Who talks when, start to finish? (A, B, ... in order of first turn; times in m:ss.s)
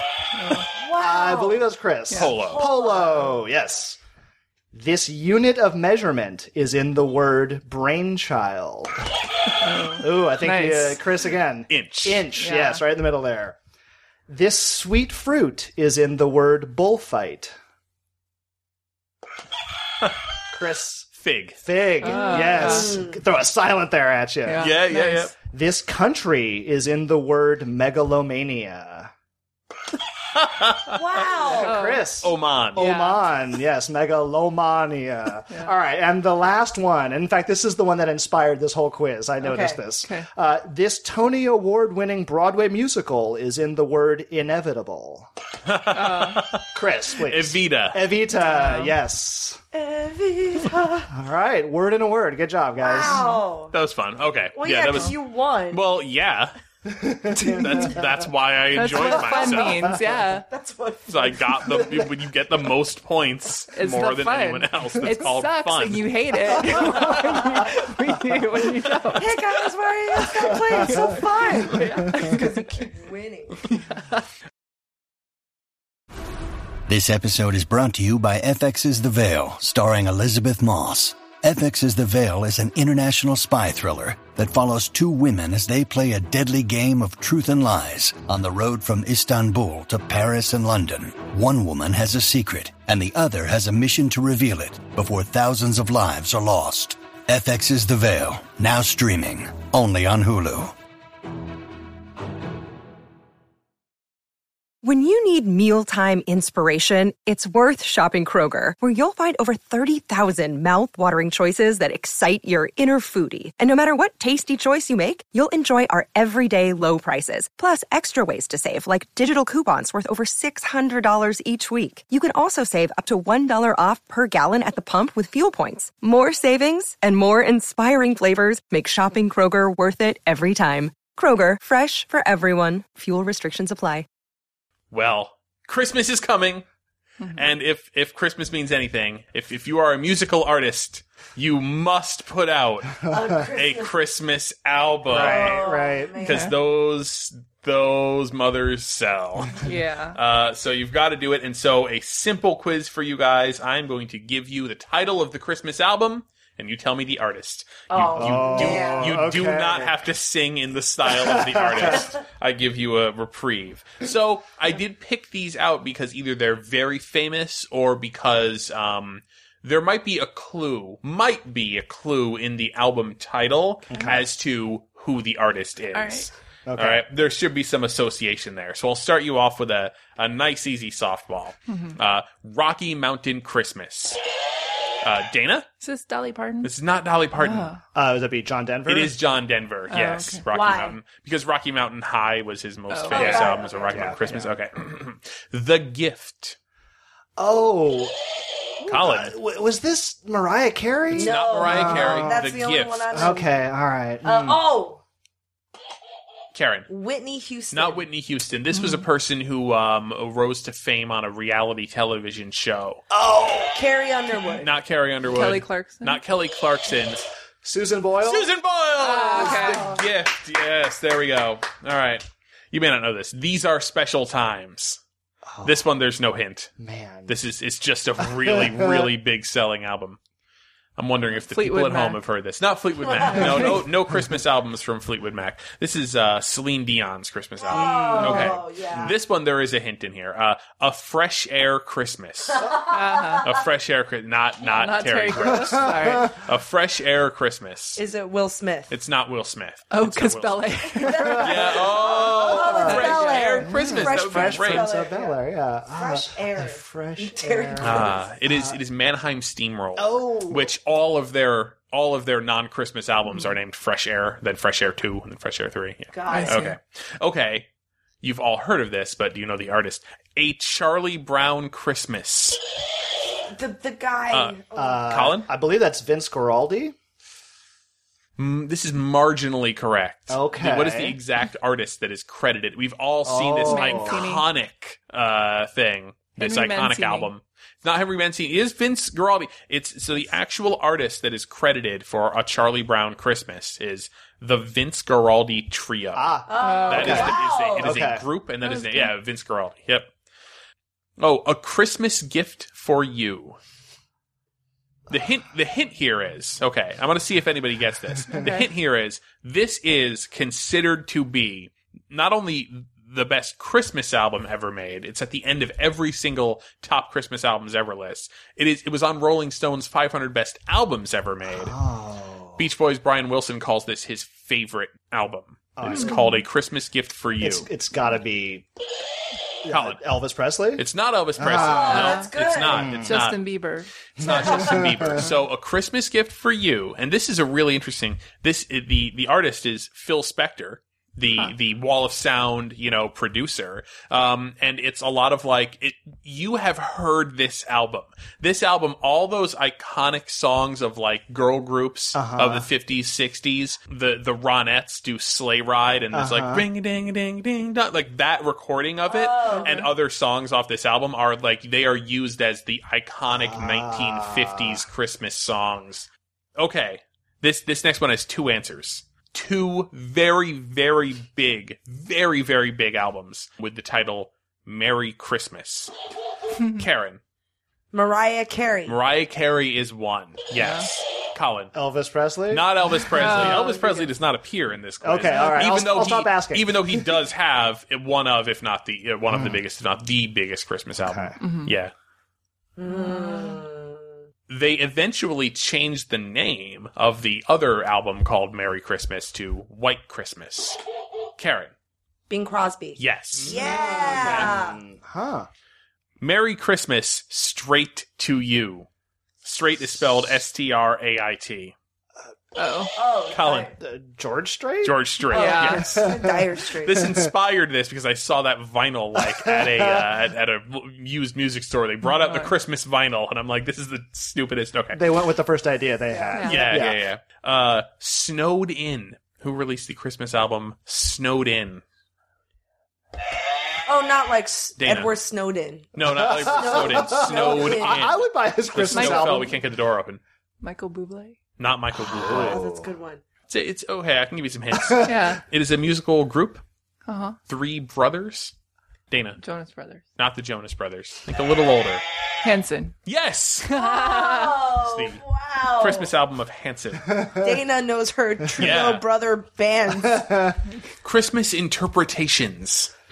0:00.4-0:00.6 A
0:00.8-0:01.7 B
0:00.9-0:04.0 C
0:02.1-0:02.3 A
0:02.1-0:02.6 D
0:02.4-0:03.3 B
0:04.7-0:09.0 C
0:09.6-0:11.0 A
0:09.9-0:13.6 C
0:11.7-0:12.2 D
0:12.3-0:12.8 A
0:14.3-0:17.6 C
0:20.5-0:21.1 C
0:21.2-0:21.6 D
0:21.6-0:24.7 C
0:22.0-0:22.9 A
0:22.2-0:23.2 B
0:24.4-0:25.3 A
0:24.6-0:25.3 D
0:25.5-0:29.1 C
0:30.3-0:31.0 D
0:30.9-0:31.8 B
0:31.4-0:45.3 C
0:31.6-0:32.2 A
0:32.2-0:32.8 D
0:32.8-0:33.2 A
0:39.4-0:39.8 B
0:40.0-0:40.3 A
0:45.6-0:46.7 D
0:45.9-0:46.4 A
0:46.7-0:49.6 C
0:47.2-0:48.0 D
0:48.3-0:49.0 A
0:49.7-0:51.1 B
0:51.1-0:53.3 C
0:52.8-0:53.7 B
0:53.1-0:53.4 A
0:53.7-0:55.2 D
0:54.5-0:55.8 B
0:55.7-0:56.5 D
0:56.8-0:58.1 C
0:57.3-0:57.8 A
0:57.5-0:59.9 D
0:58.7-1:00.5 A
0:59.6-1:00.0 C
1:00.5-1:01.5 B
1:01.1-1:06.1 D
1:01.8-1:02.1 C
1:03.7-1:09.3 A
1:09.1-1:13.7 B
1:10.8-1:11.1 C
1:10.8-1:12.7 A
1:13.7-1:14.2 A
1:16.9-1:40.7 E
1:44.8-2:14.0 F
2:14.9-2:16.6 D
2:17.2-2:17.4 A
2:17.3-2:29.6 D
2:23.1-2:23.9 B
2:25.1-2:26.2 C
2:25.1-2:26.5 B
2:26.2-2:26.5 A
2:29.6-2:30.2 A
2:30.1-3:04.2 D
2:37.9-2:39.2 B
2:38.2-2:39.9 C
2:41.1-2:42.1 C
2:53.9-2:54.3 C
2:55.9-2:56.3 A
2:56.7-2:57.0 C
3:01.7-3:01.9 A
3:05.0-3:05.7 D
3:05.8-3:06.7 A
3:06.6-3:07.7 D
3:07.4-3:07.8 A
3:07.9-3:09.2 C
3:08.9-3:16.6 D
3:09.9-3:10.4 A
3:10.5-3:11.0 B
3:12.9-3:13.5 A
3:13.1-3:14.1 B
3:13.2-3:14.5 C
3:17.4-3:18.1 C
3:18.8-3:22.4 C
3:18.9-3:19.4 D
3:21.1-3:23.3 D
3:21.1-3:23.5 B
3:23.1-3:24.6 C
3:24.2-3:25.0 B
3:26.5-3:26.9 D
3:26.9-3:28.0 B
3:27.7-3:33.0 D
3:28.8-3:29.0 A
3:33.1-3:33.7 C
3:33.6-3:34.7 B
3:34.6-3:37.2 D
3:35.3-3:36.2 A
3:37.6-3:38.5 C
3:38.2-3:45.0 D
3:39.0-3:39.9 A
3:39.0-3:40.0 B
3:45.5-3:45.8 C
3:45.6-3:46.7 D
3:46.8-3:47.3 C
3:47.3-3:50.2 D
3:48.2-3:49.1 C
3:51.0-4:02.7 D
3:51.4-3:52.2 A
3:53.1-3:53.7 B
3:53.4-3:53.7 A
3:57.6-3:59.1 B
3:57.9-3:59.1 C
4:02.5-4:03.5 B
4:02.9-4:03.4 A
4:03.4-4:08.0 D
4:04.6-4:06.3 A
4:05.4-4:06.4 C
4:08.0-4:08.9 B
4:08.9-4:10.8 D
4:09.9-4:11.8 A
4:11.0-4:15.4 B
4:11.2-4:18.8 C
4:11.4-4:14.9 D
4:12.8-4:13.6 A
4:15.9-4:18.2 B
4:17.8-4:27.7 D
4:20.0-4:20.7 C
4:26.1-4:26.7 B
4:26.3-4:26.7 A
4:28.2-4:32.6 D
4:33.5-4:35.0 B
4:34.3-4:35.5 D
4:34.7-4:37.0 C
4:38.4-5:00.1 D
4:40.3-4:41.2 C
4:43.2-4:44.2 C
4:43.6-4:44.4 A
4:46.4-4:47.3 A
4:56.1-4:58.2 C
4:56.5-4:57.9 B
4:56.6-4:57.3 A
4:58.6-4:59.1 A
5:01.2-5:03.6 D
5:05.1-5:21.8 D
5:08.3-5:08.6 A
5:21.5-5:22.6 C
5:22.6-5:27.7 D
5:25.8-5:26.3 C
5:25.9-5:26.4 A
5:27.4-5:28.6 C
5:29.6-5:30.8 C
5:29.7-5:30.0 D
5:30.8-5:33.4 D
5:31.4-5:33.2 C
5:31.5-5:32.9 B
5:31.9-5:32.3 A
5:33.0-5:33.9 A
5:34.2-6:15.9 D
5:34.2-5:35.3 C
5:52.1-5:52.7 C
5:56.1-5:56.6 C
5:59.0-5:59.9 B
5:59.6-5:59.9 A
6:03.3-6:04.8 C
6:16.7-6:17.2 D
6:17.9-6:19.0 B
6:18.8-6:21.7 D
6:20.5-6:20.9 A
6:21.7-6:22.7 C
6:22.5-6:31.9 D
6:23.1-6:24.1 A
6:25.0-6:27.2 C
6:25.3-6:25.6 A
6:29.3-6:29.6 C
6:31.0-6:31.4 C
6:31.4-6:31.7 A
6:32.8-6:34.2 B
6:32.9-6:33.5 A
6:34.5-6:40.8 D
6:41.4-6:41.7 D
6:42.3-6:44.8 B
6:43.0-6:44.5 D
6:43.3-6:45.5 C
6:46.2-6:48.9 D
6:49.4-6:51.7 D
6:52.6-6:52.9 A
6:52.9-6:53.7 B
6:53.3-6:53.7 D
6:53.8-6:55.1 C
6:54.8-6:56.1 D
6:55.3-6:57.1 B
6:55.3-6:55.8 A
6:55.6-6:57.3 C
6:56.8-7:05.0 D
6:59.2-7:00.1 C
7:02.0-7:02.5 A
7:04.9-7:07.0 C
7:06.3-7:06.6 A
7:06.4-7:11.8 D
7:13.8-7:18.1 B
7:14.8-7:15.1 D
7:15.9-7:20.2 D
7:16.1-7:19.6 C
7:18.9-7:19.5 A
7:20.6-7:21.4 A
7:21.6-7:22.6 D
7:22.0-7:22.9 C
7:22.1-7:23.2 B
7:23.5-7:26.6 D
7:25.0-7:25.4 A
7:27.1-7:27.4 A
7:27.5-7:28.5 D
7:29.1-7:29.4 D
7:29.4-7:30.0 A
7:30.2-7:32.0 D
7:32.4-7:32.9 A
7:33.0-7:33.7 D
7:33.7-7:34.6 A
7:33.7-7:36.1 B
7:34.8-7:35.2 D
7:35.7-7:37.1 D
7:37.1-7:37.5 C
7:37.4-7:40.3 B
7:38.6-7:39.0 D
7:40.0-7:40.6 C
7:41.0-7:42.9 D